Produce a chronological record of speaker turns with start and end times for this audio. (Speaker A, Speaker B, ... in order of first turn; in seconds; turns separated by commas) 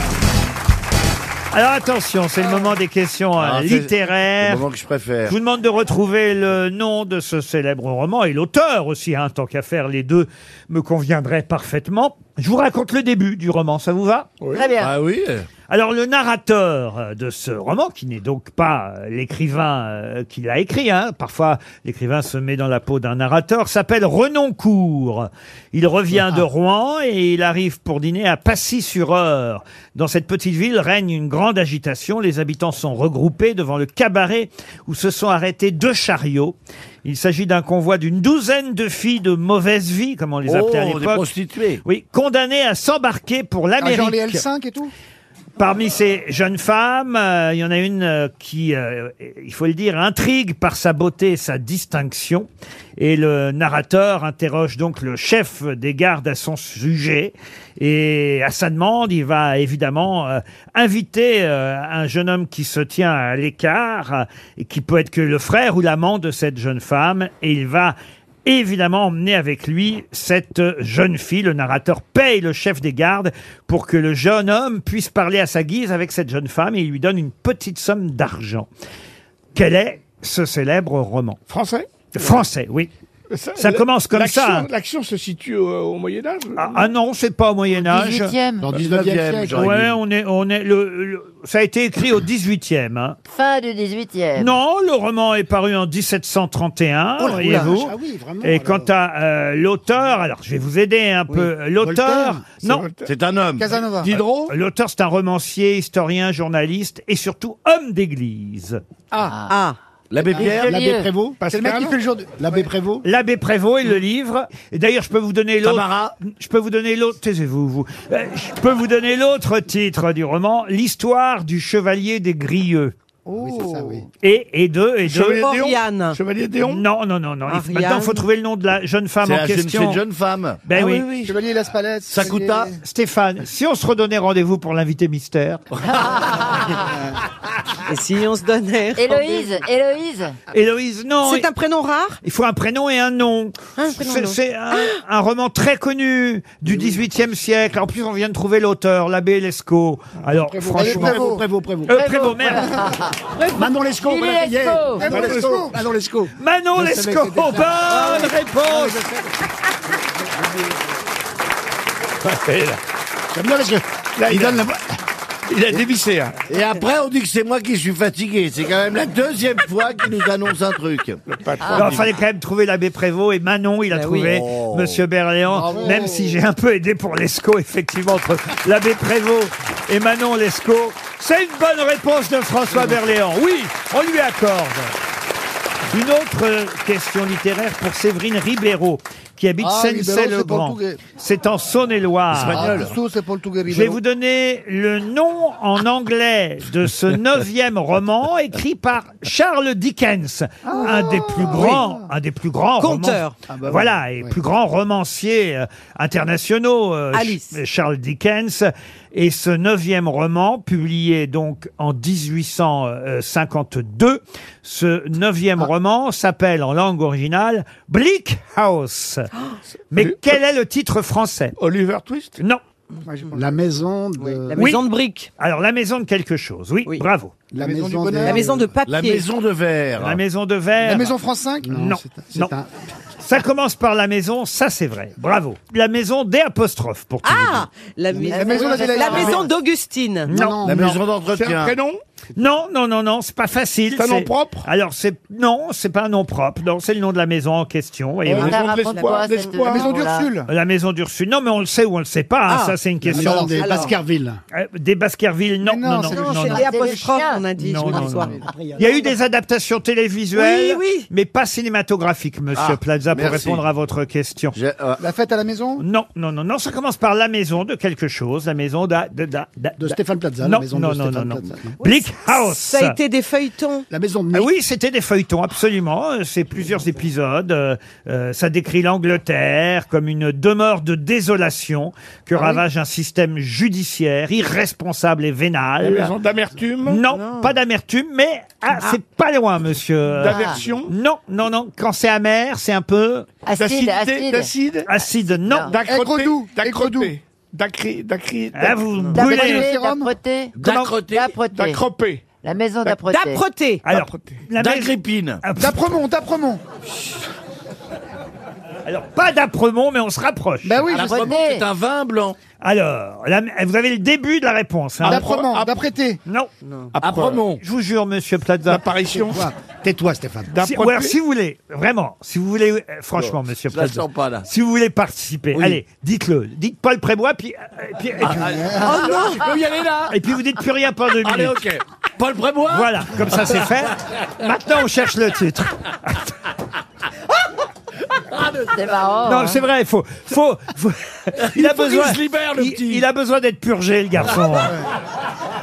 Speaker A: 1.5-4.6, Speaker B: 3.4-5.3, Speaker A: 5.3-14.3, Speaker C: 14.4-14.7, Speaker D: 14.5-14.9, Speaker B: 14.8-15.5, Speaker A: 15.7-41.3, Speaker B: 40.5-41.8, Speaker A: 41.8-44.4, Speaker E: 43.8-44.9, Speaker A: 45.6-52.5, Speaker A: 53.0-78.7, Speaker A: 79.5-81.4, Speaker C: 81.5-82.4, Speaker A: 82.1-82.9, Speaker C: 83.3-86.9, Speaker A: 83.6-84.7, Speaker A: 86.6-88.4, Speaker D: 87.8-88.7, Speaker F: 88.6-89.7, Speaker B: 88.7-90.0, Speaker A: 89.5-93.2, Speaker D: 93.3-94.5, Speaker A: 94.4-102.9, Speaker F: 97.2-98.9, Speaker E: 97.2-97.8, Speaker F: 101.8-102.6, Speaker C: 102.6-103.1, Speaker B: 103.0-103.7, Speaker E: 103.6-104.2, Speaker A: 104.5-108.8, Speaker D: 109.2-109.5, Speaker G: 109.5-109.8, Speaker B: 110.1-110.9, Speaker D: 110.3-111.1, Speaker F: 110.4-111.4, Speaker C: 111.4-112.0, Speaker E: 111.5-112.7, Speaker F: 112.3-113.0, Speaker A: 113.0-122.9, Speaker B: 115.6-116.2, Speaker E: 123.3-124.1, Speaker F: 123.3-124.1, Speaker A: 124.2-125.5, Speaker C: 125.0-126.8, Speaker G: 125.4-126.2, Speaker A: 126.6-130.0, Speaker G: 127.5-128.2, Speaker B: 129.2-130.6, Speaker A: 130.7-131.1, Speaker C: 130.8-131.2, Speaker E: 131.2-132.8, Speaker B: 132.1-132.7, Speaker A: 132.8-135.6, Speaker D: 135.9-136.9, Speaker G: 137.9-139.4, Speaker D: 139.0-140.4, Speaker A: 140.5-141.5, Speaker G: 141.2-142.2, Speaker A: 142.2-151.3, Speaker G: 143.8-145.0, Speaker F: 150.5-152.0, Speaker E: 150.8-151.4, Speaker A: 151.9-152.8, Speaker D: 151.9-153.1, Speaker F: 153.5-159.3, Speaker D: 154.0-155.1, Speaker E: 155.0-155.8, Speaker C: 155.1-155.6, Speaker A: 156.4-159.0, Speaker C: 162.2-162.8, Speaker F: 163.3-164.8, Speaker C: 164.2-164.7, Speaker C: 165.5-166.4, Speaker B: 166.5-171.2, Speaker C: 171.3-172.1, Speaker A: 171.7-184.9, Speaker G: 173.9-174.3, Speaker B: 174.3-175.0, Speaker E: 175.5-176.4, Speaker A: 185.9-192.8, Speaker E: 189.6-191.0, Speaker B: 192.3-193.0, Speaker E: 192.5-194.0, Speaker A: 193.7-219.3, Speaker E: 200.7-202.0, Speaker G: 202.8-203.4, Speaker F: 203.5-204.3, Speaker G: 207.1-207.6, Speaker A: 219.9-221.6, Speaker C: 219.9-220.3, Speaker C: 221.6-222.4, Speaker E: 223.1-223.6, Speaker F: 223.3-224.7, Speaker G: 224.2-225.3, Speaker A: 224.6-224.8, Speaker A: 225.4-227.3, Speaker F: 227.5-228.7, Speaker E: 227.6-228.5, Speaker G: 228.2-229.2, Speaker B: 228.9-230.2, Speaker A: 230.0-231.1, Speaker E: 230.8-231.8, Speaker F: 231.6-232.7, Speaker A: 231.7-232.6, Speaker A: 233.2-237.7, Speaker G: 237.2-240.3, Speaker F: 238.1-239.2, Speaker E: 238.3-239.4, Speaker D: 238.3-239.4, Speaker A: 240.3-240.8, Speaker F: 240.3-241.0, Speaker B: 240.7-241.8, Speaker C: 241.3-242.0, Speaker A: 242.4-248.6, Speaker C: 243.9-244.7, Speaker C: 248.3-250.0, Speaker D: 248.3-250.3, Speaker E: 249.6-250.5, Speaker A: 250.5-253.6, Speaker G: 252.5-252.8, Speaker F: 253.0-254.4, Speaker E: 253.1-253.9, Speaker G: 253.4-254.0, Speaker A: 254.5-256.5, Speaker E: 255.6-257.1, Speaker G: 256.0-258.4, Speaker D: 256.4-257.4, Speaker A: 257.6-264.6, Speaker F: 258.4-259.2, Speaker G: 260.4-261.1, Speaker B: 262.6-263.6, Speaker B: 264.6-265.0, Speaker E: 265.0-265.9, Speaker A: 265.8-273.0, Speaker F: 269.8-271.8, Speaker G: 271.8-273.9, Speaker F: 273.9-274.5, Speaker A: 274.3-286.1, Speaker G: 282.4-282.6, Speaker C: 285.8-287.0, Speaker A: 286.9-293.3, Speaker G: 287.1-287.6, Speaker C: 290.1-290.9, Speaker D: 290.3-290.6, Speaker D: 293.5-294.5, Speaker C: 293.6-294.9, Speaker A: 294.9-295.7, Speaker D: 295.3-295.8, Speaker C: 295.7-298.8, Speaker E: 295.9-297.1, Speaker A: 298.5-299.7, Speaker D: 299.1-301.8, Speaker E: 299.2-300.1, Speaker A: 300.6-300.9, Speaker B: 300.6-301.4, Speaker C: 301.5-302.2, Speaker D: 302.4-303.4, Speaker G: 303.1-303.8, Speaker A: 303.9-305.8, Speaker C: 303.9-304.5, Speaker B: 304.6-305.4, Speaker E: 305.6-306.6, Speaker A: 308.9-310.9, Speaker E: 310.6-311.4, Speaker B: 310.9-312.4, Speaker D: 310.9-311.7, Speaker A: 312.6-315.3, Speaker C: 315.0-315.8, Speaker E: 315.1-316.2, Speaker C: 316.9-317.4, Speaker B: 317.0-317.6, Speaker A: 317.6-318.8, Speaker C: 318.7-319.5, Speaker F: 319.1-320.6, Speaker C: 320.5-321.2, Speaker A: 320.6-328.6, Speaker B: 323.2-324.5, Speaker E: 328.3-329.1, Speaker B: 328.4-330.1, Speaker G: 328.9-329.5, Speaker A: 330.1-331.6, Speaker B: 331.2-333.8, Speaker A: 332.7-336.4, Speaker D: 338.7-339.6, Speaker A: 339.2-344.8, Speaker B: 341.4-343.0